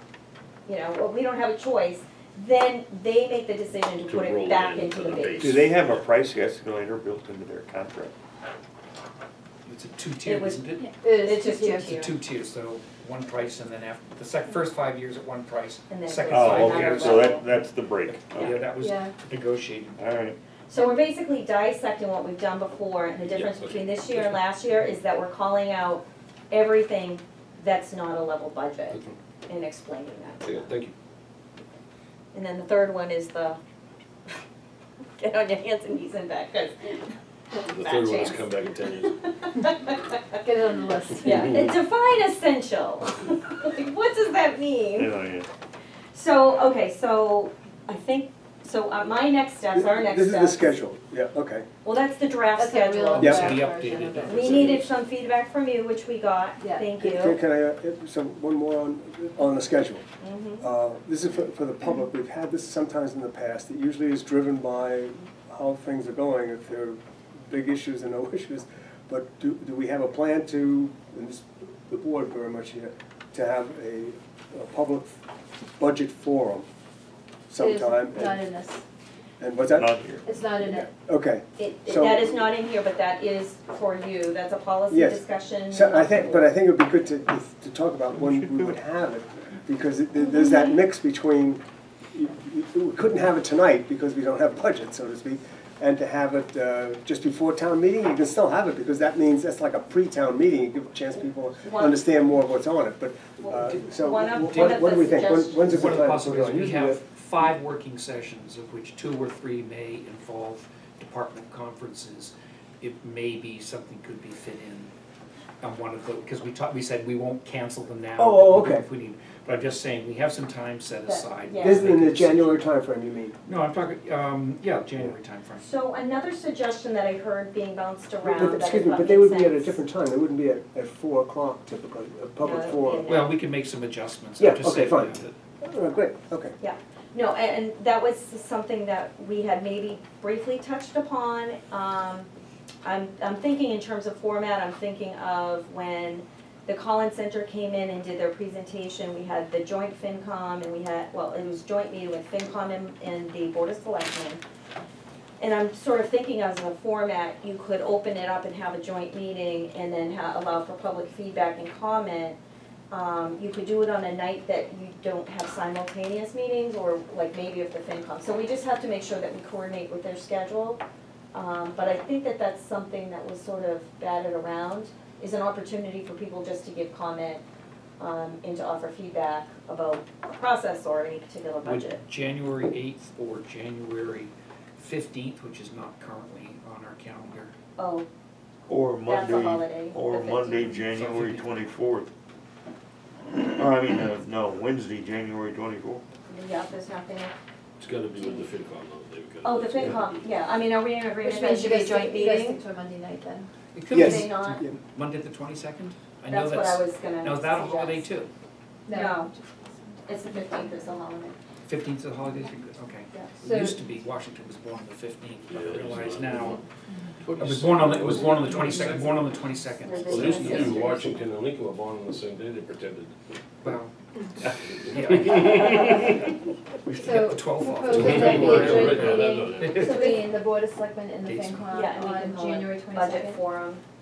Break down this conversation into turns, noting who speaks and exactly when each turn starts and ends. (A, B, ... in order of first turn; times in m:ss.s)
0:00.7-0:05.6 A
0:04.0-0:06.0 B
0:05.4-0:08.1 C
0:09.6-0:10.9 D
0:10.2-0:12.1 A
0:10.8-0:12.0 E
0:11.8-0:20.0 D
0:15.9-0:17.5 A
0:16.3-0:18.6 C
0:18.8-0:19.1 E
0:20.0-0:20.4 C
0:20.7-0:30.7 A
0:23.2-0:24.4 B
0:30.4-0:30.9 B
0:32.3-0:33.6 A
0:35.2-0:40.4 A
0:37.7-0:39.2 B
0:40.4-0:41.5 E
0:41.2-0:45.1 A
0:45.0-0:45.5 C
0:46.1-0:50.8 A
0:49.7-0:51.7 F
0:51.8-0:53.7 A
0:52.6-0:54.9 E
0:53.1-0:54.8 D
0:53.2-0:53.6 F
0:54.3-0:57.4 A
0:56.6-0:56.9 E
0:57.0-1:00.0 F
1:00.2-1:00.7 A
1:00.6-1:15.2 F
1:15.8-1:16.7 F
1:17.5-1:18.5 F
1:17.6-1:18.8 E
1:19.4-1:19.9 F
1:19.6-1:20.2 C
1:20.2-1:20.9 E
1:20.7-1:22.3 F
1:21.6-1:26.5 A
1:24.9-1:31.6 F
1:28.1-1:28.8 C
1:32.1-1:47.0 F
1:41.6-1:42.0 A
1:43.4-1:45.8 A
1:44.3-1:54.9 D
1:55.6-2:02.7 D
1:58.2-1:58.8 F
2:01.1-2:01.9 A
2:01.6-2:03.4 F
2:03.5-2:05.6 D
2:05.6-2:09.8 A
2:08.2-2:13.1 F
2:12.4-2:13.4 A
2:13.0-2:15.3 D
2:14.4-2:16.5 F
2:16.6-2:22.3 A
2:22.8-2:34.4 A
2:35.4-2:42.4 A
2:42.9-2:50.8 A
2:51.3-2:57.4 A
2:58.0-3:02.0 A
3:01.6-3:07.5 D
3:07.8-3:08.1 A
3:08.7-3:12.1 C
3:09.0-3:10.8 A
3:10.9-3:11.5 D
3:13.3-3:16.0 C
3:16.3-3:17.3 A
3:17.8-3:20.4 B
3:18.2-3:18.4 A
3:19.4-3:22.6 A
3:21.2-3:23.5 E
3:23.7-3:28.3 D
3:23.9-3:24.8 F
3:24.0-3:24.6 A
3:26.3-3:28.1 A
3:28.9-3:30.7 E
3:28.9-3:29.3 A
3:30.1-3:31.4 A
3:31.7-3:36.6 D
3:33.4-3:33.8 E
3:35.5-3:36.6 B
3:37.2-3:39.3 B
3:37.4-3:40.9 D
3:39.8-3:41.0 A
3:40.1-3:43.2 B
3:43.6-3:44.0 D
3:44.5-3:46.2 D
3:44.8-3:45.9 B
3:46.9-3:50.1 D
3:46.9-3:53.4 E
3:47.9-3:50.0 B
3:49.7-3:50.3 A
3:51.2-3:51.7 D
3:51.7-3:53.8 A